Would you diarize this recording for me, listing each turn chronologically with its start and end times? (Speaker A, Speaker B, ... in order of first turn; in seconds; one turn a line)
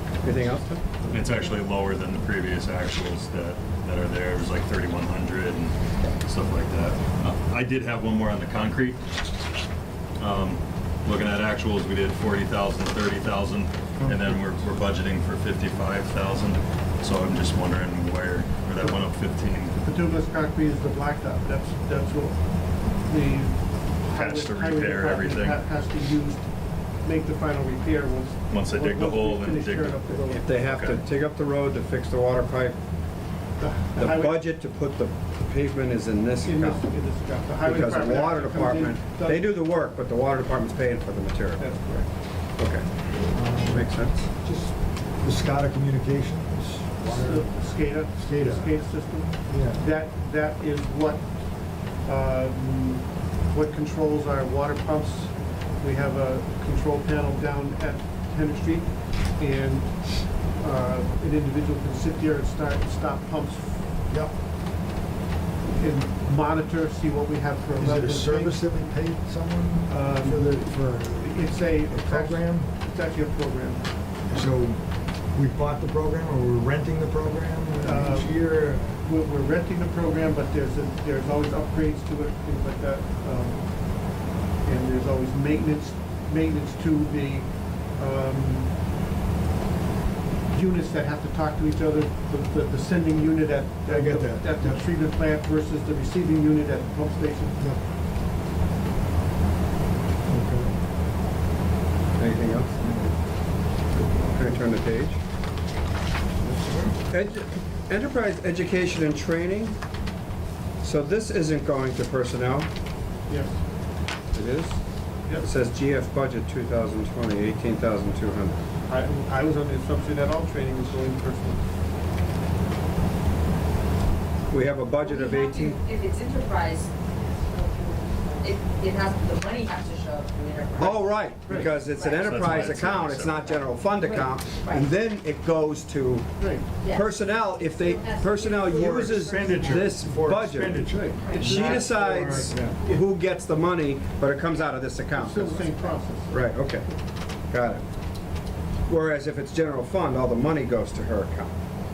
Speaker A: 0.2-0.8
Speaker B: 1.1-9.0
Speaker B: 10.2-19.8
Speaker C: 14.0-14.5
Speaker D: 19.8-30.7
Speaker B: 24.1-25.6
Speaker B: 28.5-31.0
Speaker A: 30.3-32.8
Speaker D: 33.6-34.4
Speaker A: 34.0-36.9
Speaker D: 36.4-39.5
Speaker A: 37.6-41.6
Speaker D: 41.6-42.1
Speaker A: 42.6-44.3
Speaker C: 43.3-48.9
Speaker D: 47.0-51.4
Speaker C: 49.4-49.8
Speaker D: 51.9-63.9
Speaker C: 64.1-64.3
Speaker D: 65.6-68.6
Speaker C: 67.7-72.7
Speaker D: 69.9-74.0
Speaker C: 74.3-79.0
Speaker D: 77.8-88.7
Speaker D: 90.5-97.6
Speaker C: 93.8-94.8
Speaker C: 100.3-100.7
Speaker A: 102.2-102.8
Speaker A: 104.3-105.2
Speaker C: 106.4-106.9
Speaker A: 107.1-109.8
Speaker A: 110.8-112.7
Speaker D: 113.3-113.5
Speaker A: 114.3-114.8
Speaker A: 115.4-118.6
Speaker D: 118.9-121.6
Speaker A: 124.5-125.8
Speaker E: 125.0-126.9
Speaker E: 128.4-132.7
Speaker A: 130.8-145.7
Speaker B: 132.2-133.6
Speaker E: 133.5-134.9
Speaker D: 136.4-136.7
Speaker E: 136.8-139.9
Speaker C: 138.7-142.8
Speaker E: 141.3-141.8
Speaker D: 145.1-146.4
Speaker A: 146.3-146.9
Speaker A: 147.5-147.8
Speaker A: 148.9-151.5